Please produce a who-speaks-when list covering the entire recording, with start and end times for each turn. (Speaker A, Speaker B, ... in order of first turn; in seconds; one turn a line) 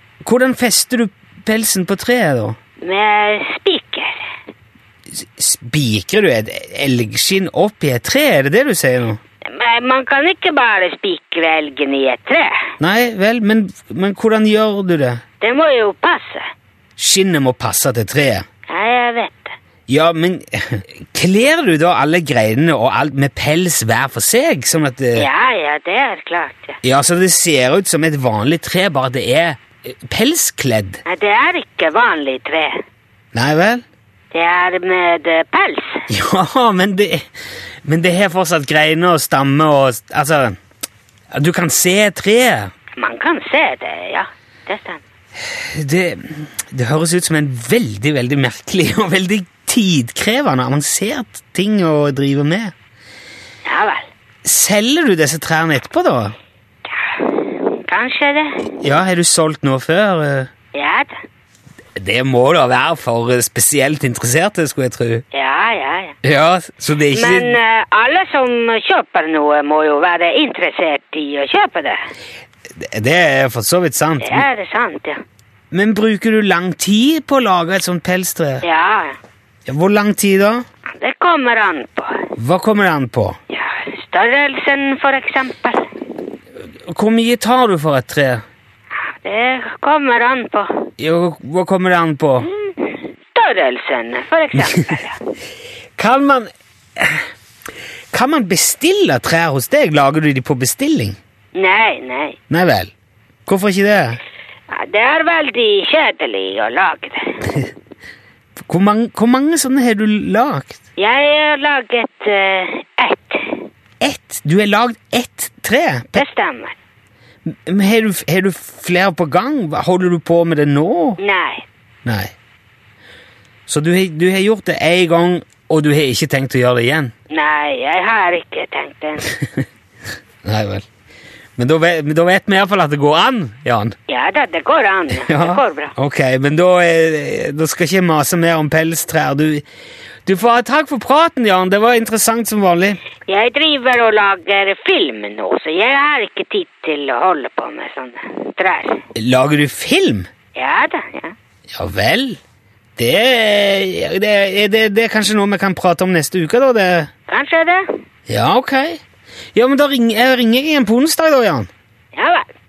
Speaker A: 0.2-2.6
Speaker B: 2.8-4.3
Speaker A: 5.1-9.2
Speaker B: 9.5-12.7
Speaker A: 12.8-15.2
Speaker B: 15.4-16.5
Speaker A: 17.0-18.4
Speaker B: 18.7-19.6
Speaker A: 19.9-25.3
Speaker B: 25.1-26.8
Speaker A: 26.8-31.0
Speaker B: 31.1-32.8
Speaker A: 33.3-33.8
Speaker B: 34.3-36.0
Speaker A: 36.1-37.3
Speaker A: 37.9-40.6
Speaker A: 41.3-42.7
Speaker B: 43.0-45.0
Speaker A: 45.4-52.7
Speaker B: 53.6-54.1
Speaker A: 54.4-56.4
Speaker B: 56.9-58.6
Speaker A: 58.8-60.5
Speaker B: 60.7-61.1
Speaker A: 62.0-65.2
Speaker B: 65.3-66.2
Speaker A: 66.2-67.6
Speaker B: 67.1-72.0
Speaker A: 72.8-74.5
Speaker B: 74.2-75.2
Speaker A: 75.7-78.6
Speaker B: 78.6-79.2
Speaker A: 79.7-80.6
Speaker B: 80.9-82.3
Speaker A: 82.4-83.4
Speaker B: 83.5-85.9
Speaker A: 86.9-88.4
Speaker B: 89.0-90.9
Speaker A: 91.0-92.5
Speaker B: 92.7-95.2
Speaker A: 96.0-97.3
Speaker A: 98.1-101.2
Speaker B: 101.5-102.4
Speaker A: 102.5-102.9
Speaker A: 103.5-104.2
Speaker B: 104.7-107.5
Speaker A: 108.7-110.8
Speaker B: 111.0-113.7
Speaker A: 114.0-116.2
Speaker B: 116.2-116.8
Speaker A: 117.5-121.2
Speaker B: 121.2-121.7
Speaker A: 122.0-122.3
Speaker A: 123.7-127.1
Speaker B: 127.3-129.3
Speaker A: 130.4-130.9
Speaker A: 131.6-134.0
Speaker B: 134.1-135.9
Speaker A: 135.2-139.6
Speaker A: 140.3-143.0
Speaker B: 143.3-149.0
Speaker A: 149.2-150.3
Speaker B: 150.6-151.3
Speaker A: 151.7-152.4
Speaker A: 153.0-157.1
Speaker B: 157.3-157.9
Speaker A: 158.3-159.0
Speaker A: 159.6-161.7
Speaker B: 162.1-162.5